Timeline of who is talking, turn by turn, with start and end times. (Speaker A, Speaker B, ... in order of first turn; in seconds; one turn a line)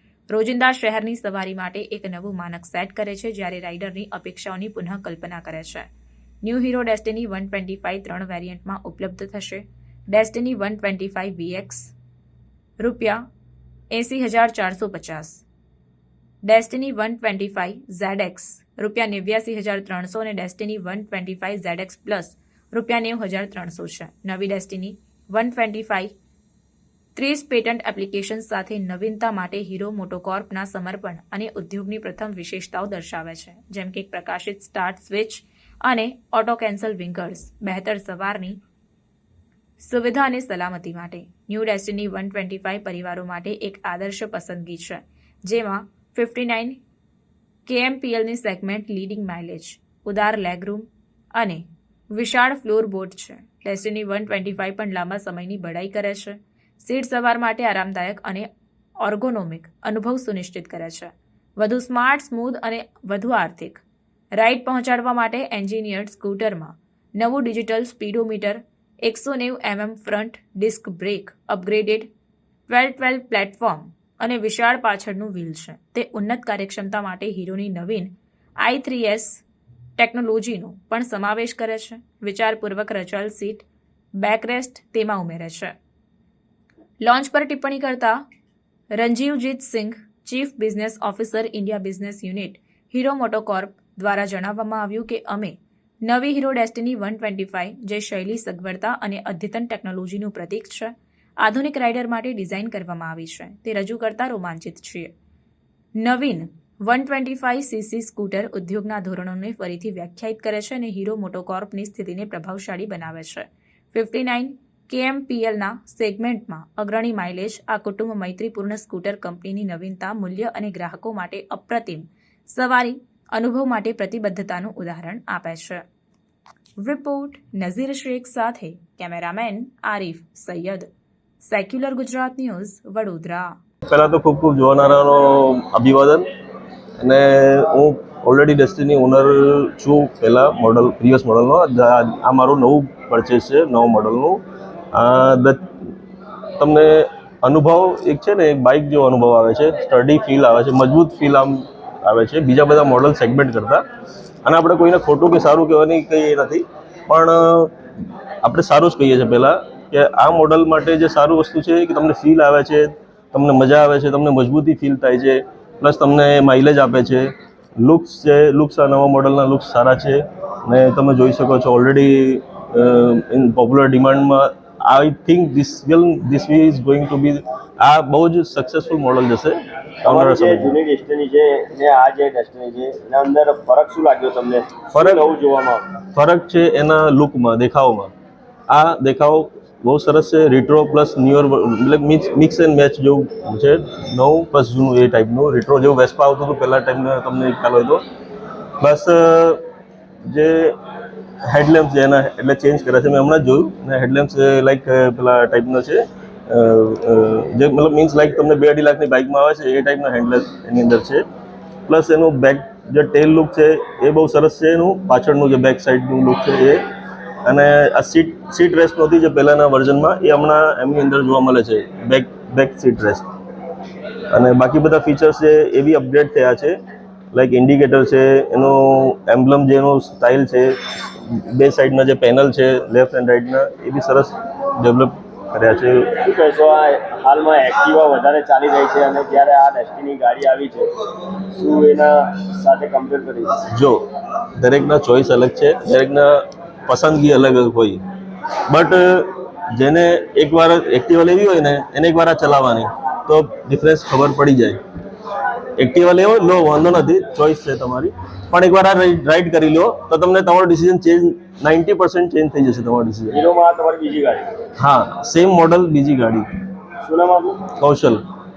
Speaker A: 0.3-5.9
Speaker A: 6.4-11.9
Speaker A: 12.8-13.2
Speaker A: 13.9-15.4
Speaker A: 16.4-26.1
Speaker A: 27.1-38.6
Speaker A: 39.8-46.8
Speaker A: 47.6-58.5
Speaker A: 59.0-63.8
Speaker A: 64.4-72.1
Speaker A: 72.7-79.4
Speaker A: 80.0-83.7
Speaker A: 84.2-85.7
Speaker A: 87.0-88.2
Speaker A: 88.9-105.1
Speaker A: 106.0-125.8
Speaker A: 126.8-130.9
Speaker A: 131.4-133.6
Speaker B: 133.9-136.3
Speaker B: 137.0-144.4
Speaker B: 144.9-145.9
Speaker B: 146.6-153.8
Speaker B: 154.4-157.7
Speaker B: 158.4-180.7
Speaker C: 180.1-185.9
Speaker B: 184.9-185.2
Speaker B: 186.1-188.1
Speaker B: 188.7-198.0
Speaker B: 198.8-199.6
Speaker B: 200.3-200.8
Speaker B: 201.5-211.2
Speaker B: 211.9-216.8
Speaker B: 217.4-223.3
Speaker B: 224.3-226.8
Speaker B: 227.3-236.2
Speaker C: 236.2-240.9
Speaker C: 241.5-243.6
Speaker B: 243.7-248.0
Speaker B: 248.7-254.8
Speaker B: 255.8-263.4
Speaker C: 263.3-264.5
Speaker B: 264.8-266.5
Speaker C: 267.0-267.6
Speaker B: 267.8-268.2